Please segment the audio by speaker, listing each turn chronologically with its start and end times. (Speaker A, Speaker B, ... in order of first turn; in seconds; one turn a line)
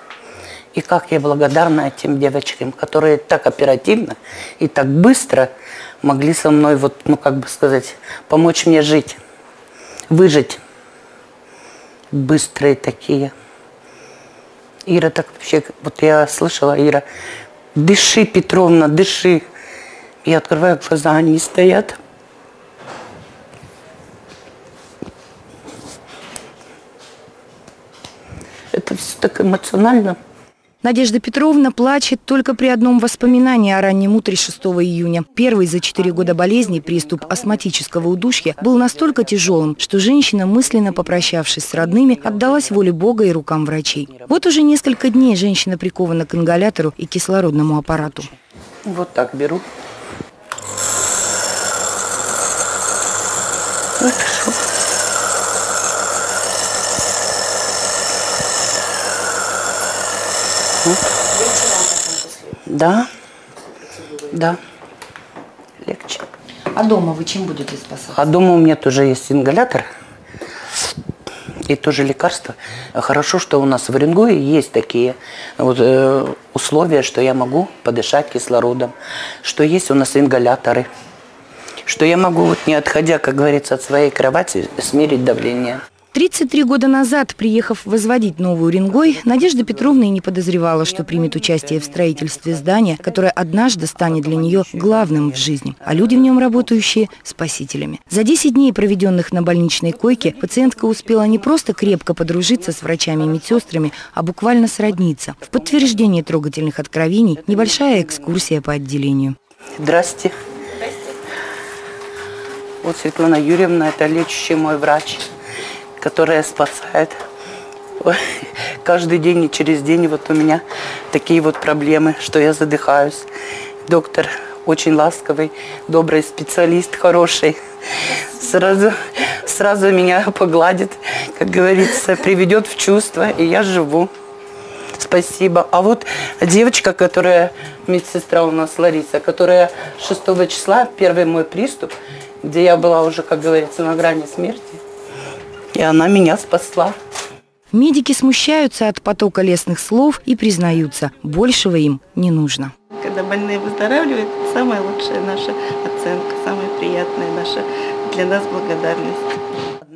Speaker A: 0.7-5.5
Speaker A: 6.0-9.2
Speaker A: 10.1-10.6
Speaker A: 12.1-13.3
Speaker A: 14.9-17.0
Speaker A: 17.8-19.4
Speaker A: 20.2-22.0
Speaker A: 28.7-30.2
Speaker B: 30.8-48.3
Speaker A: 36.0-39.8
Speaker A: 40.6-43.0
Speaker A: 44.0-44.4
Speaker A: 48.9-49.7
Speaker A: 54.0-54.6
Speaker B: 61.3-62.6
Speaker A: 62.6-63.1
Speaker B: 63.8-64.3
Speaker A: 64.3-64.6
Speaker A: 65.8-66.2
Speaker B: 66.7-68.2
Speaker A: 68.1-69.9
Speaker A: 71.6-80.9
Speaker A: 81.8-85.8
Speaker B: 86.1-109.4
Speaker A: 88.9-90.1
Speaker A: 90.8-93.3
Speaker A: 94.0-96.7
Speaker A: 100.0-103.7
Speaker A: 105.4-106.1
Speaker A: 107.4-108.4
Speaker A: 109.8-110.3
Speaker A: 112.8-115.3
Speaker A: 116.0-117.2
Speaker A: 118.0-123.3
Speaker A: 123.8-134.1
Speaker A: 134.9-144.8
Speaker A: 145.7-146.9
Speaker B: 147.7-152.7
Speaker C: 152.9-159.3